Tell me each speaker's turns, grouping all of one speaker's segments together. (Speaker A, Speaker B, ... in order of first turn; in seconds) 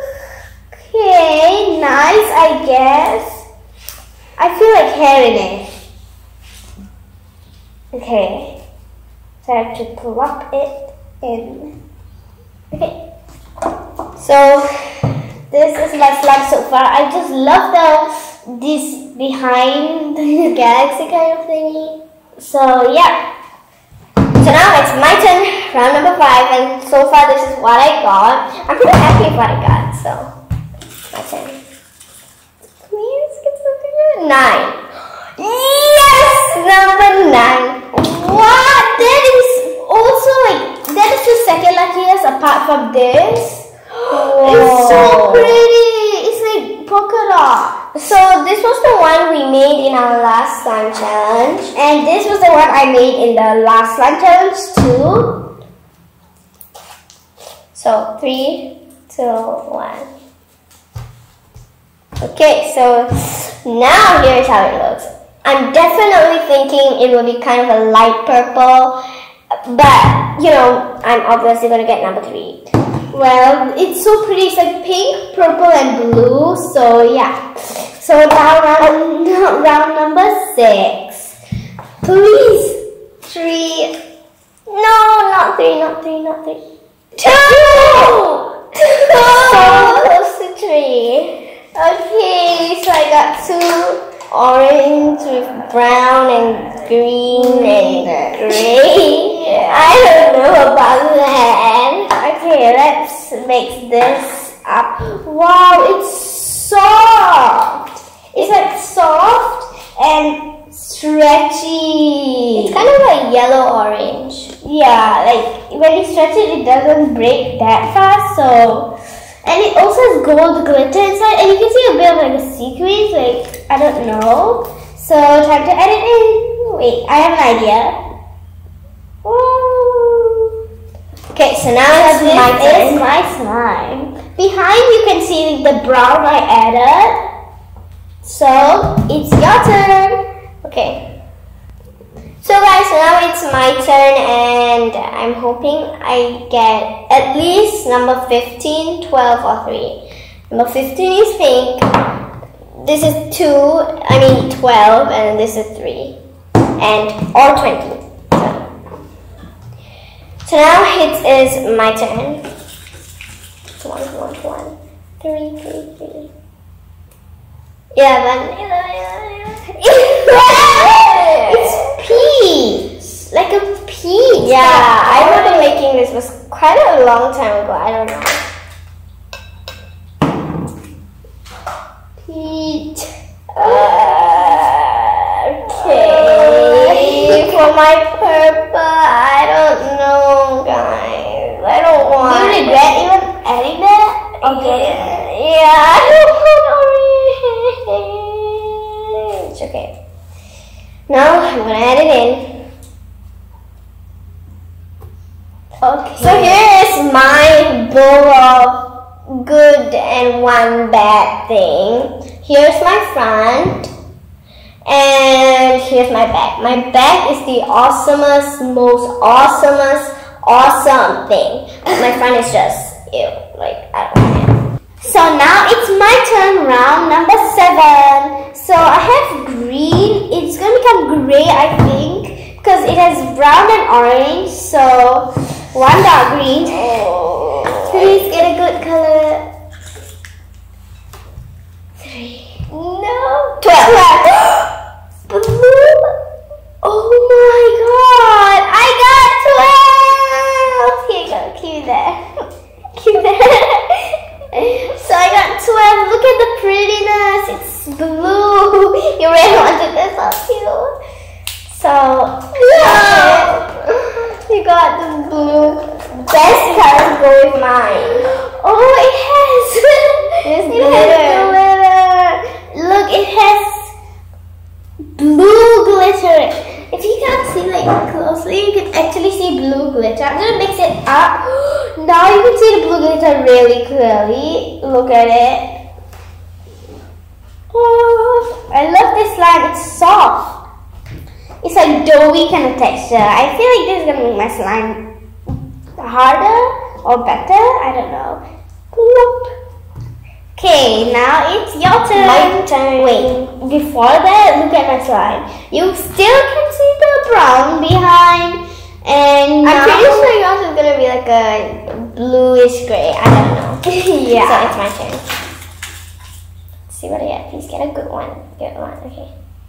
Speaker A: 0.7-3.5, 4.4-5.7, 7.9-8.6, 9.4-11.7, 15.5-20.6, 22.4-23.2, 32.9-33.5, 35.4-36.6, 37.9-47.8, 51.7-55.4, 73.1-81.3, 82.0-82.8, 87.2-90.0, 91.8-94.0, 97.3-100.0, 102.1-112.8, 114.6-118.9, 119.5-128.0, 129.2-130.5, 131.9-137.2, 138.2-140.2, 171.3-173.6, 174.3-175.8, 182.3-183.1, 183.6-184.5, 185.6-187.5, 192.2-195.2, 205.8-206.6, 225.0-236.9, 237.8-239.5, 242.0-244.7, 245.3-246.1, 246.8-252.2, 254.5-260.9, 262.5-264.1, 268.2-273.9, 275.2-285.7, 287.7-290.6, 291.6-295.0, 296.0-298.4, 298.9-299.5, 300.6-310.3, 313.9-314.7
Speaker B: 14.2-15.1, 20.4-22.0, 24.4-30.3, 31.1-31.6, 33.4-34.8, 36.5-37.8, 44.1-45.6, 48.0-51.7, 57.7-60.1, 62.2-69.0, 69.6-72.7, 83.3-83.9, 84.7-86.6, 87.2-88.2, 89.0-91.4, 94.3-102.1, 112.6-114.5, 131.3-133.0, 140.6-141.1, 142.4-150.0, 150.5-151.9, 152.8-156.2, 156.8-158.7, 160.4-162.4, 163.8-166.3, 167.9-171.9, 173.5-178.4, 183.6-185.1, 185.6-192.8, 194.4-199.9, 201.1-202.6, 206.2-213.9, 214.9-224.6, 236.7-238.2, 243.6-244.4, 253.0-254.2, 261.7-263.7, 264.2-268.3, 270.4-271.6, 302.2-303.5, 309.6-315.2, 316.9-319.3